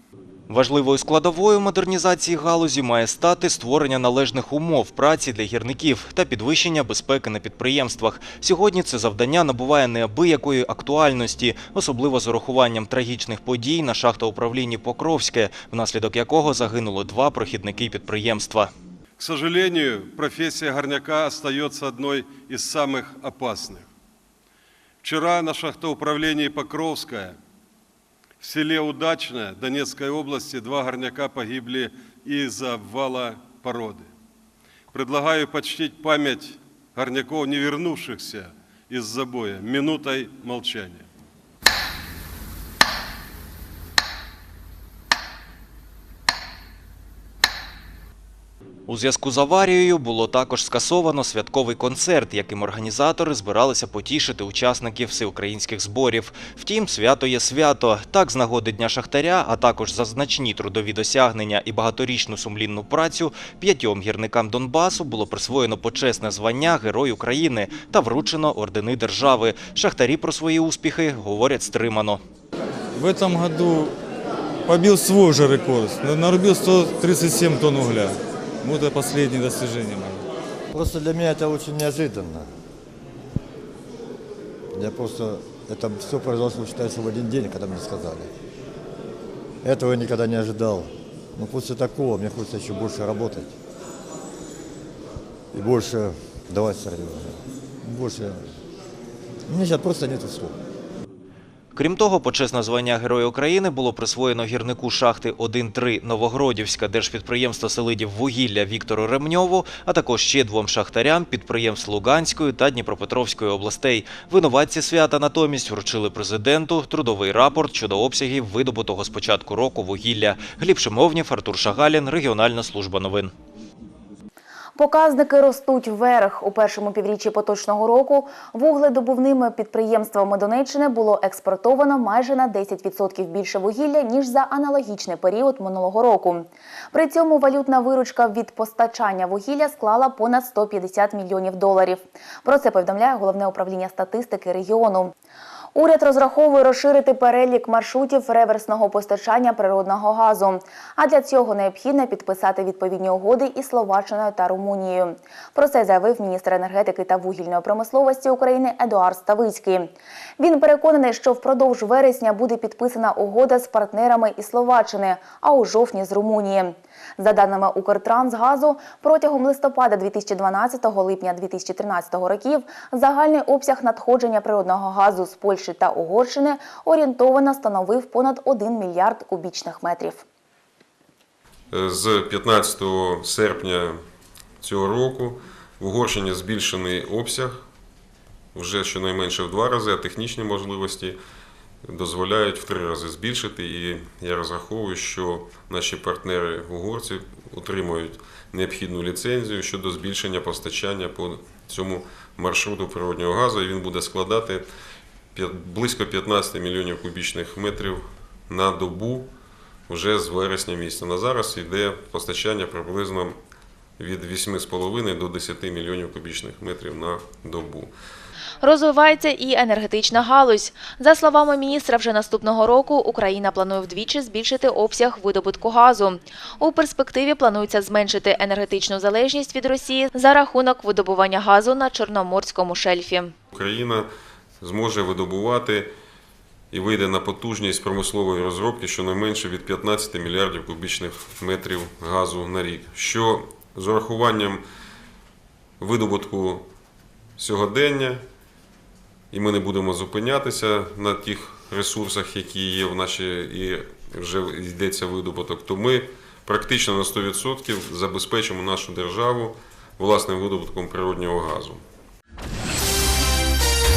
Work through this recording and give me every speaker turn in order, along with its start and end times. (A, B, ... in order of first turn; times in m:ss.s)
0:00.5-0:18.7 A
0:19.2-0:23.8 B
0:25.0-0:27.3 B
0:28.4-0:34.0 B
0:34.9-0:41.0 B
0:48.9-1:12.2 A
1:12.9-1:14.0 C
1:14.6-1:20.3 C
1:20.7-1:22.5 D
1:24.7-1:28.3 D
1:29.6-1:33.6 D
1:35.5-1:38.5 D
1:39.5-1:40.6 D
1:41.7-2:03.3 A
2:04.8-2:25.1 E
2:25.8-3:00.2 E
3:01.7-3:04.0 F
3:04.6-3:07.6 F
3:08.6-3:11.2 F
3:11.8-3:24.7 F
3:25.3-3:29.3 F
3:29.9-3:33.4 F
3:34.0-3:37.9 F
3:38.6-3:53.4 G
3:53.5-3:54.1 F
3:54.6-3:55.9 F
3:56.7-4:04.6 F
4:05.8-4:06.7 F
4:07.4-4:08.2 F
4:09.3-4:21.8 F